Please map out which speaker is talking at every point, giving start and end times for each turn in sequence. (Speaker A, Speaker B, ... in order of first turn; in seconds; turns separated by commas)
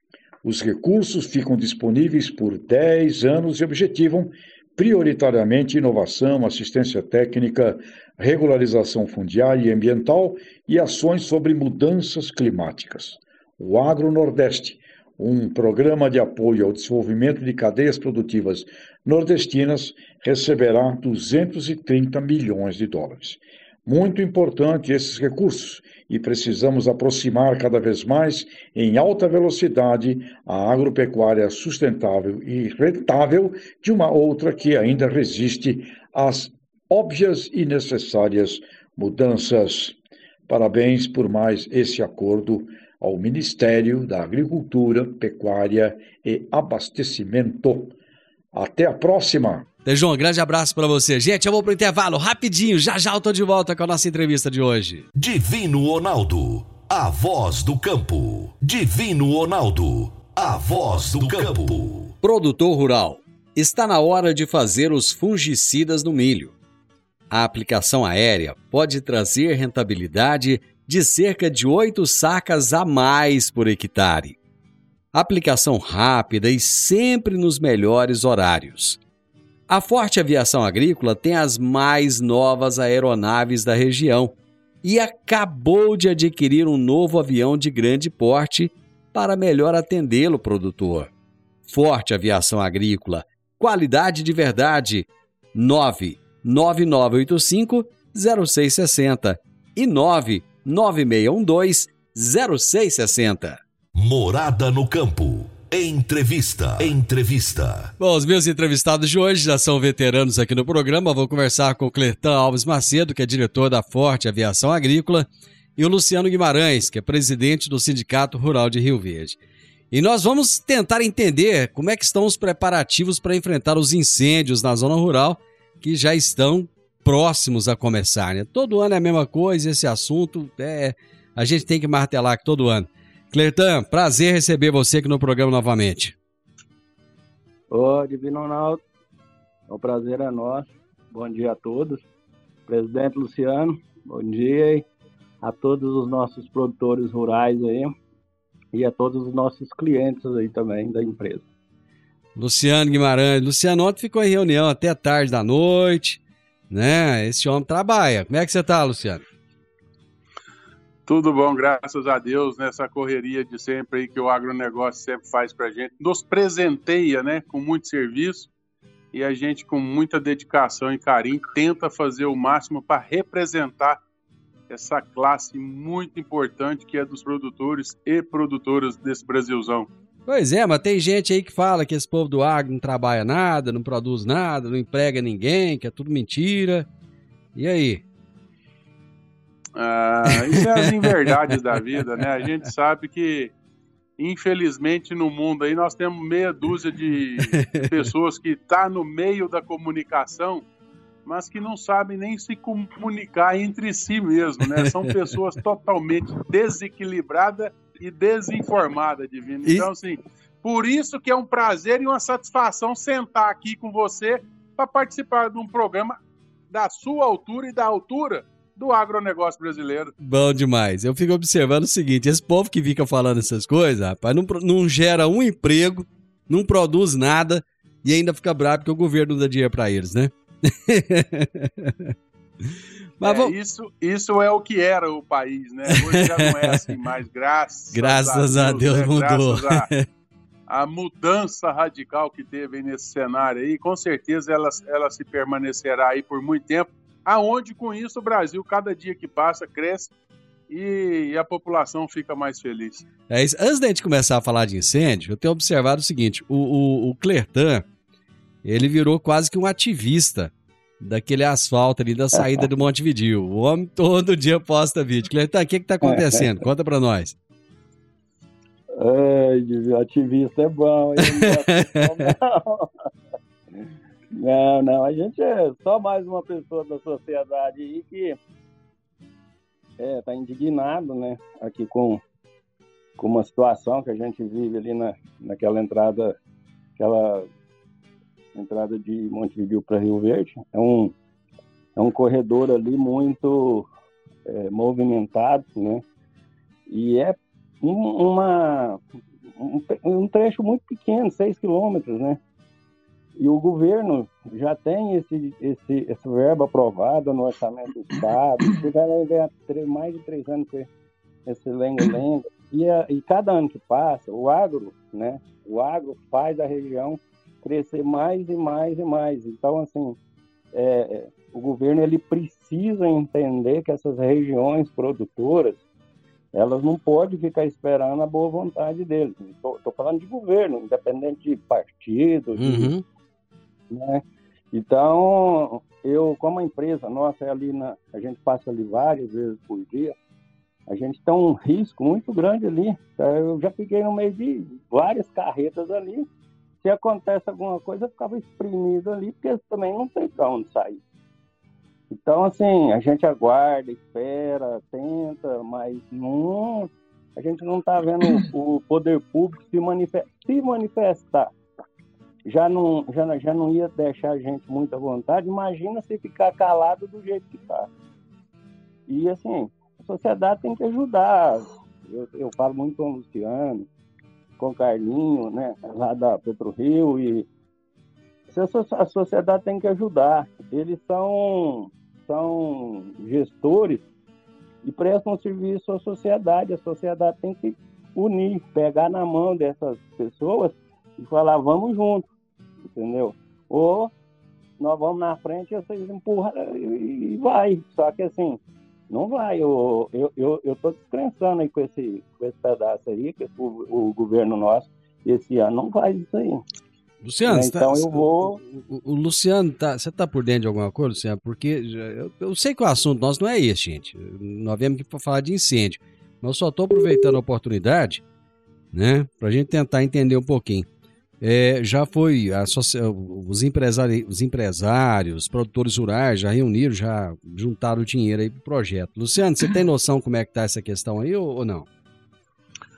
Speaker A: 0.4-40.0, Speaker A: 40.5-47.9, Speaker A: 48.5-49.6, Speaker B: 49.9-55.1, Speaker C: 55.1-62.1, Speaker B: 62.2-66.5, Speaker B: 67.3-74.4, Speaker B: 75.1-79.0, Speaker B: 79.7-91.1, Speaker B: 91.7-103.6, Speaker C: 104.0-107.9, Speaker B: 108.0-119.4, Speaker B: 119.9-136.1, Speaker D: 137.7-138.8, Speaker D: 139.7-142.0, Speaker D: 142.7-144.8, Speaker D: 145.4-147.9, Speaker D: 148.7-151.5, Speaker B: 152.3-159.2, Speaker E: 161.1-168.5, Speaker E: 169.1-174.0, Speaker E: 174.7-179.9, Speaker B: 180.3-186.9, Speaker B: 187.5-188.0, Speaker E: 189.8-193.5, Speaker B: 190.3-191.8, Speaker E: 194.2-200.6, Speaker B: 197.6-197.9, Speaker E: 201.2-216.2, Speaker B: 204.8-205.1, Speaker E: 216.7-220.1, Speaker B: 220.2-232.1, Speaker B: 233.2-233.5, Speaker E: 233.2-239.9, Speaker B: 235.9-236.8, Speaker B: 237.9-240.0, Speaker E: 240.7-250.1, Speaker E: 250.7-253.0, Speaker B: 253.3-257.8, Speaker B: 258.6-267.4, Speaker D: 269.0-273.1, Speaker B: 271.2-272.3, Speaker D: 274.3-278.4, Speaker D: 280.0-282.2, Speaker D: 283.2-286.3, Speaker D: 287.0-287.5, Speaker D: 288.5-291.1, Speaker D: 291.9-293.9, Speaker D: 294.5-296.0, Speaker D: 296.9-299.0, Speaker D: 299.6-302.4, Speaker D: 303.4-310.9, Speaker D: 311.4-320.2, Speaker D: 320.7-325.8, Speaker D: 326.5-332.9, Speaker B: 332.6-333.0, Speaker D: 333.9-340.1, Speaker D: 340.9-346.3, Speaker D: 346.8-351.0, Speaker D: 352.1-361.5, Speaker D: 362.5-367.9, Speaker D: 369.1-373.9, Speaker D: 374.6-377.5, Speaker D: 378.5-384.0, Speaker D: 384.8-392.2, Speaker D: 392.9-394.1, Speaker D: 394.8-406.6, Speaker B: 407.2-418.2, Speaker D: 407.5-408.6, Speaker B: 418.9-420.9, Speaker B: 421.4-431.9